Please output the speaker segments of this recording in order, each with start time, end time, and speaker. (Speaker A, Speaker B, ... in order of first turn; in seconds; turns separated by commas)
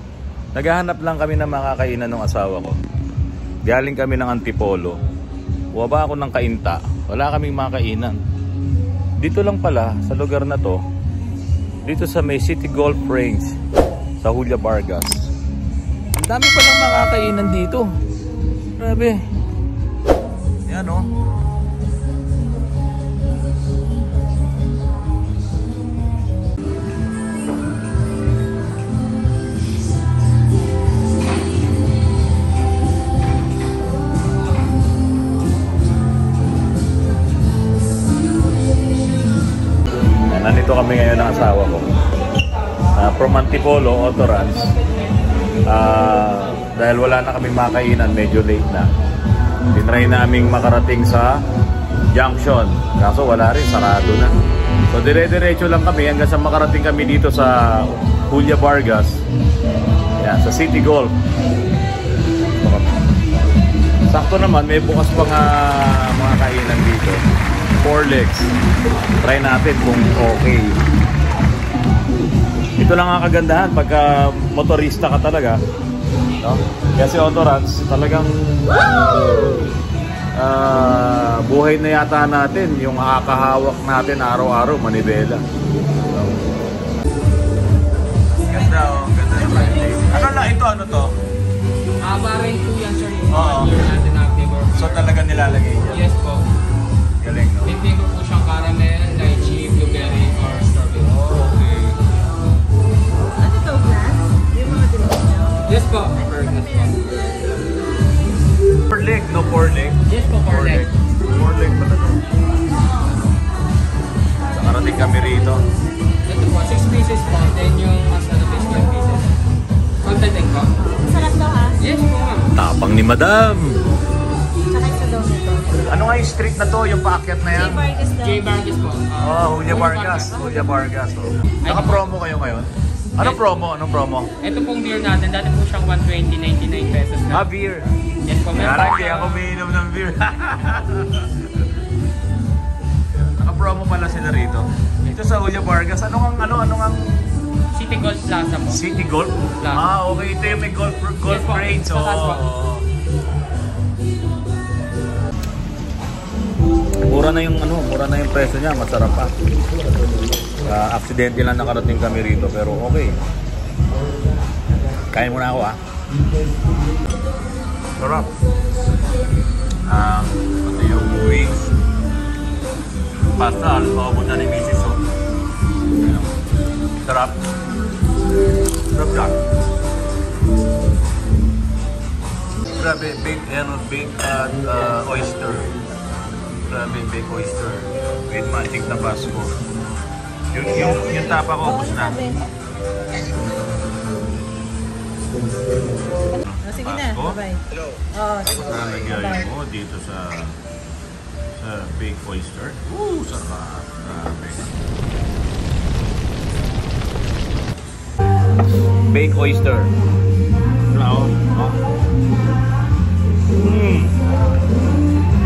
Speaker A: 0.5-2.7, Speaker A: 3.6-5.0, Speaker A: 5.7-8.2, Speaker A: 9.2-10.8, Speaker A: 11.8-13.5, Speaker A: 14.2-15.3, Speaker A: 16.2-17.9, Speaker A: 18.8-19.2, Speaker A: 20.7-21.1, Speaker A: 40.3-41.9, Speaker A: 43.0-44.7, Speaker A: 45.7-48.9, Speaker A: 49.7-51.4, Speaker A: 52.1-54.3, Speaker A: 54.9-59.2, Speaker A: 60.2-61.1, Speaker A: 62.6-63.1, Speaker A: 64.1-67.2, Speaker A: 67.8-68.5, Speaker A: 69.2-70.8, Speaker A: 72.8-75.6, Speaker A: 76.4-79.3, Speaker A: 80.4-85.4, Speaker A: 88.4-91.1, Speaker B: 88.7-90.2, Speaker B: 92.0-95.1, Speaker A: 93.3-93.7, Speaker A: 94.7-96.1, Speaker B: 95.9-96.5, Speaker A: 97.2-97.8, Speaker B: 97.6-101.1, Speaker A: 101.0-102.0, Speaker C: 103.4-105.6, Speaker B: 105.6-107.3, Speaker C: 106.2-107.5, Speaker A: 108.9-112.2, Speaker B: 110.0-110.9, Speaker A: 114.5-115.6, Speaker B: 116.2-119.4, Speaker B: 120.0-120.7, Speaker C: 120.9-121.8, Speaker B: 121.8-122.5, Speaker A: 122.5-123.8, Speaker C: 124.7-125.9, Speaker A: 125.9-127.9, Speaker C: 127.5-128.4, Speaker B: 128.1-130.5, Speaker A: 129.2-134.3, Speaker B: 131.6-132.1, Speaker B: 134.4-137.5, Speaker A: 137.3-137.9, Speaker B: 138.2-139.5, Speaker A: 138.5-141.7, Speaker A: 143.2-147.0, Speaker B: 147.7-148.8, Speaker A: 148.7-152.8, Speaker B: 149.5-149.9, Speaker B: 151.2-152.4, Speaker A: 157.1-159.3, Speaker A: 160.6-163.2, Speaker A: 165.1-165.8, Speaker A: 168.0-168.3, Speaker A: 169.9-171.7, Speaker A: 173.3-175.0, Speaker A: 176.0-176.3, Speaker A: 177.0-177.4, Speaker A: 178.9-179.4, Speaker A: 182.7-185.7, Speaker A: 186.6-189.6, Speaker A: 190.5-192.3, Speaker C: 191.6-192.4, Speaker A: 196.4-197.4, Speaker C: 196.6-199.3, Speaker A: 198.4-200.6, Speaker A: 201.6-204.7, Speaker A: 209.1-209.9, Speaker A: 210.9-211.8, Speaker A: 213.6-214.2